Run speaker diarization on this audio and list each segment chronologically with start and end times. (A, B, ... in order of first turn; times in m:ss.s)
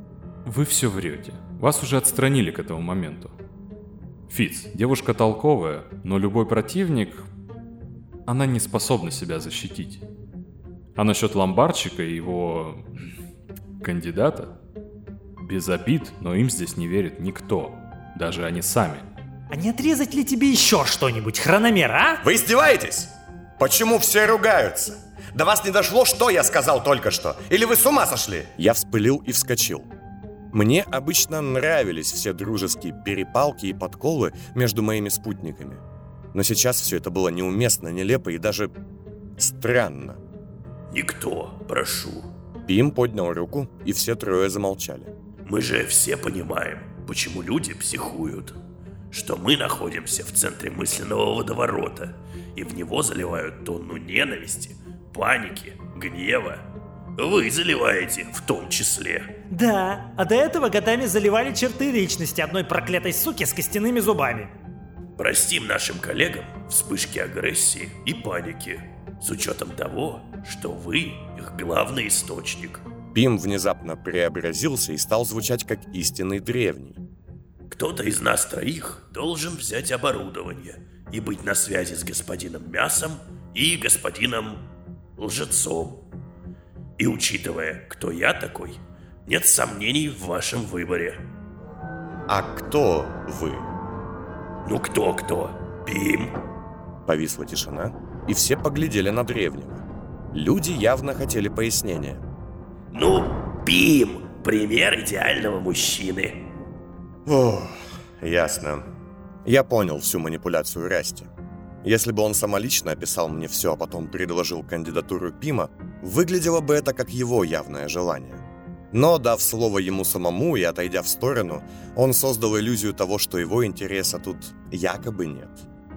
0:00.4-0:03.3 A
0:04.3-0:07.3 A
0:08.3-0:10.0 A
0:11.0-0:12.8 A
0:13.8-0:14.5 A
0:15.4-0:19.1 A
0:19.5-0:22.2 B
0:22.2-0:29.9 C
0:30.5-0:35.8 C
0:36.3-0:38.7 C
0:39.4-0:40.2 C
0:40.9-0:42.3 D
0:42.6-0:45.1 C
0:45.4-0:48.5 D
0:49.1-0:56.6 D
0:57.2-0:59.3 D
0:59.5-1:04.5 B
1:05.2-1:12.8 D
1:13.1-1:17.0 C
1:17.7-1:24.6 D
1:25.2-1:26.0 D
1:27.0-1:31.2 D
1:32.3-1:33.7 C
1:34.6-1:36.3 D
1:37.0-1:42.2 C
1:42.9-1:46.4 D
1:47.2-1:48.8 C
1:49.4-1:51.3 C
1:51.8-2:05.6 C